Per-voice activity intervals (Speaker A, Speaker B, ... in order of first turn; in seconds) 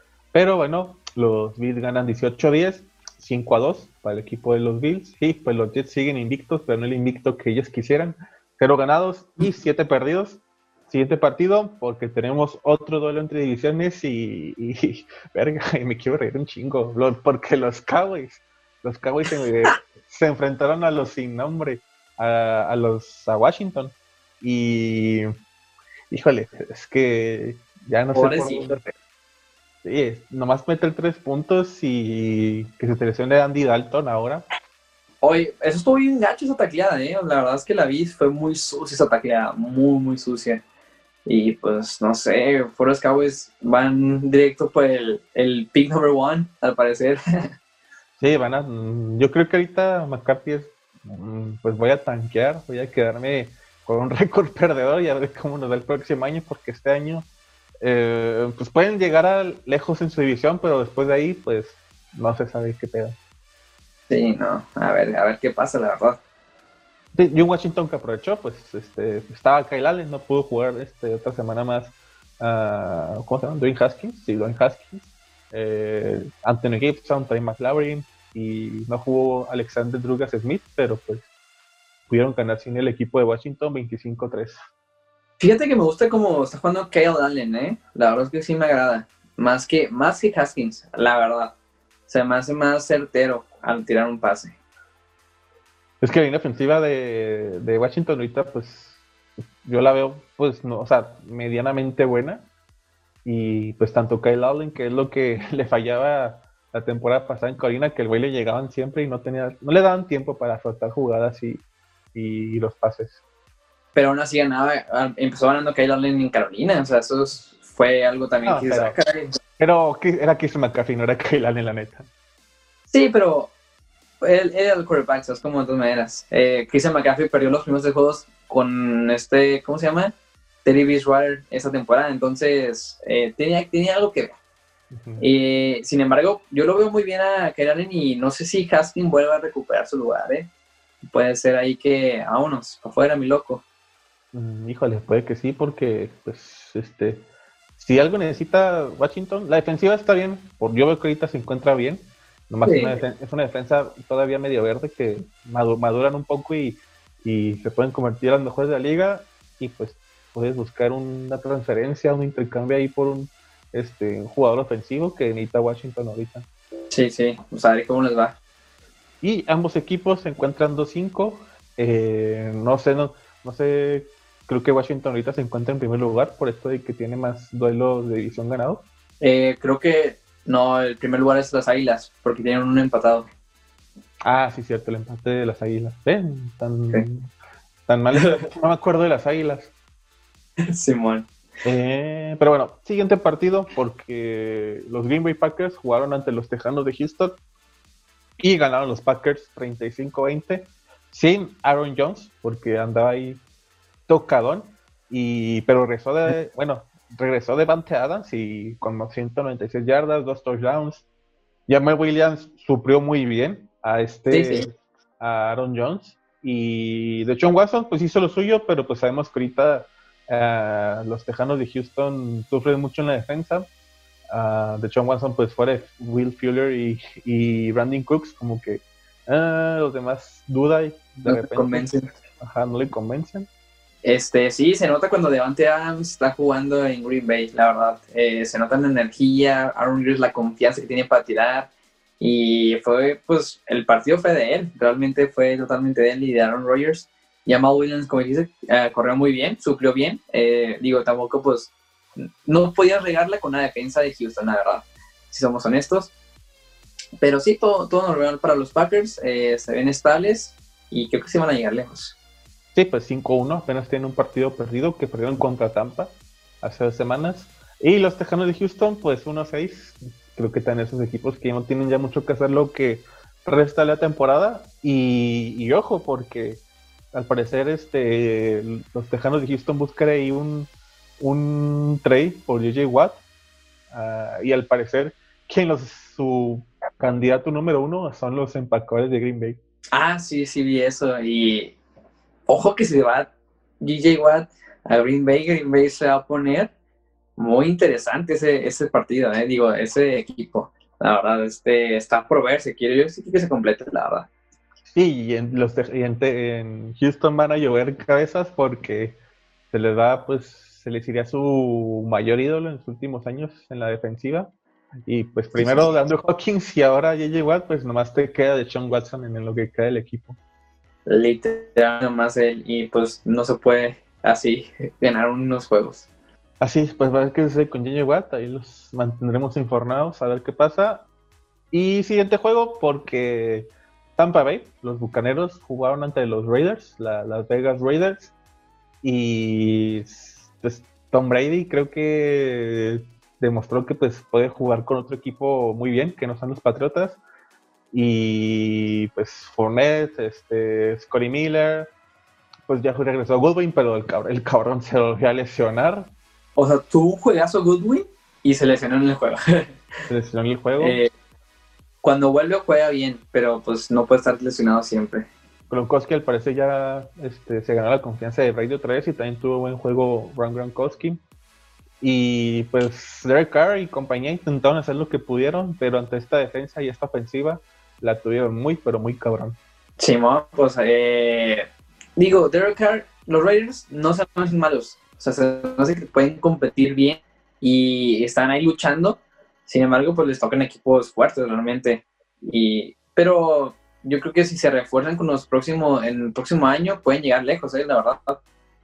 Speaker A: 0.3-25.3, 26.1-28.9, 29.8-34.5, 48.2-57.3, 57.8-63.2, 67.1-81.3, 82.1-84.6, 96.0-99.0, 99.7-102.5, 103.2-111.6, 112.1-113.2, 118.5-119.0, 119.6-122.1, 134.9-135.3, 144.3-147.3, 147.8-166.5, 169.2-178.9, 184.2-187.3, 187.9-189.7, 191.6-197.4, 198.4-203.4, 204.1-211.1, 211.7-214.7, 215.2-223.7, 224.3-233.5, 262.8-283.2, 283.9-289.6, 304.9-309.2, 309.7-314.5, 315.1-320.4, 326.6-331.1, 331.7-338.3, 339.0-347.2, 347.9-351.9, 352.7-356.1, 360.1-361.0, 365.7-371.2, 372.0-379.6
Speaker B: 28.1-28.7, 35.2-40.6, 41.3-47.2, 64.1-66.2, 85.4-91.5, 92.1-94.6, 113.9-119.3, 122.9-123.5, 124.2-134.3, 135.2-140.5, 141.0-143.6, 152.6-153.0, 166.9-168.4, 179.2-183.3, 188.2-188.5, 190.7-191.3, 214.3-214.7, 231.2-232.1, 234.0-241.7, 242.2-256.1, 257.2-262.2, 289.9-291.8, 292.5-296.7, 297.4-304.3, 315.6-315.9, 321.1-326.1, 356.6-359.8, 360.8-361.1, 362.0-365.3, 380.0-398.4